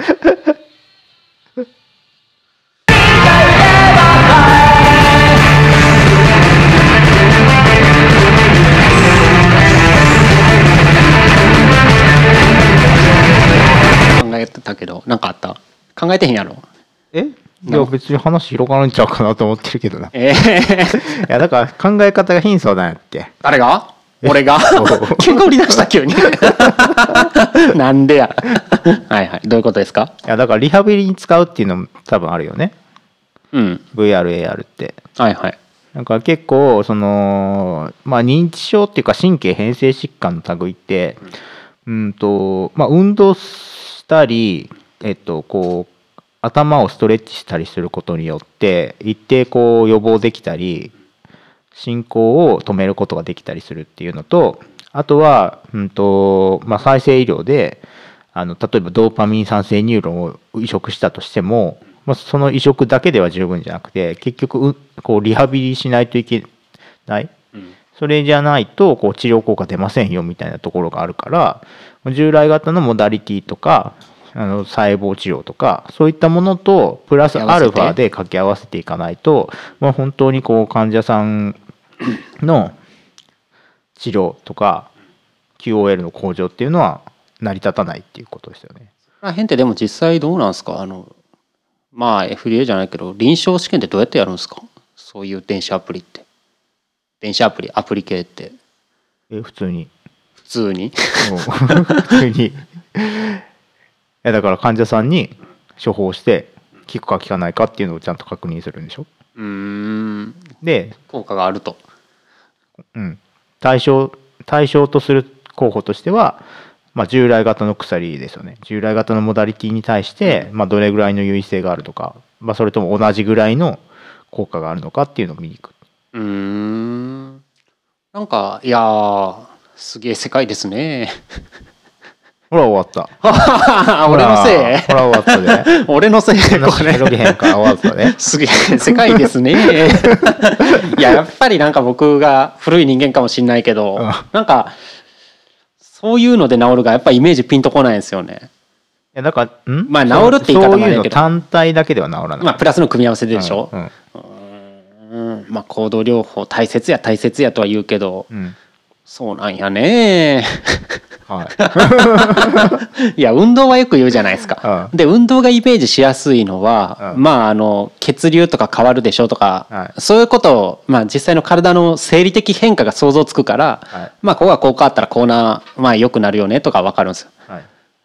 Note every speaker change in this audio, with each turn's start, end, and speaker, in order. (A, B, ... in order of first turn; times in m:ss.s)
0:00.1-0:00.4 A
0:14.1-0:16.6 B
0:17.1-0:20.1 A
0:17.6-0:17.9 B
0:20.1-0:21.2 B
0:20.9-0:23.3 A
0:23.4-0:30.1 B
0:24.2-0:25.5 A
0:26.3-0:26.9 A
0:30.2-0:32.7 A
0:33.5-0:33.8 B
0:33.9-0:35.0 A
0:35.2-0:35.6 B
0:35.9-0:41.3 A
0:41.8-0:45.9 A
0:46.4-0:50.9 A
0:51.7-0:57.8 A
0:58.3-1:06.5 A
1:07.1-1:07.3 A
1:08.0-1:21.6 A
1:17.3-1:18.0 B
1:22.4-1:22.8 A
1:24.0-1:24.9 A
1:25.6-1:28.9 A
1:29.2-1:31.1 B
1:31.9-1:36.2 B
1:37.2-1:38.6 B
1:39.3-1:39.9 A
1:40.5-1:42.2 B
1:41.2-1:43.4 A
1:44.2-1:49.1 A
1:49.4-1:50.5 B
1:50.6-1:51.0 A
1:51.1-1:51.8 B
1:52.9-1:56.4 A
1:56.9-2:05.7 A
2:06.1-2:07.4 B
2:08.1-2:11.2 B
2:12.5-2:13.1 A
2:13.2-2:24.8 B
2:14.0-2:15.7 A
2:16.5-2:18.2 A
2:18.9-2:19.2 A
2:19.8-2:21.0 A
2:24.0-2:24.2 A
2:25.9-2:28.5 B
2:29.1-2:32.6 A
2:29.9-2:31.2 B
2:32.4-2:38.3 B
2:33.3-2:33.9 A
2:38.3-2:38.6 A
2:39.1-2:41.0 B
2:41.3-2:42.8 A
2:41.5-2:57.3 B
2:44.6-2:44.9 A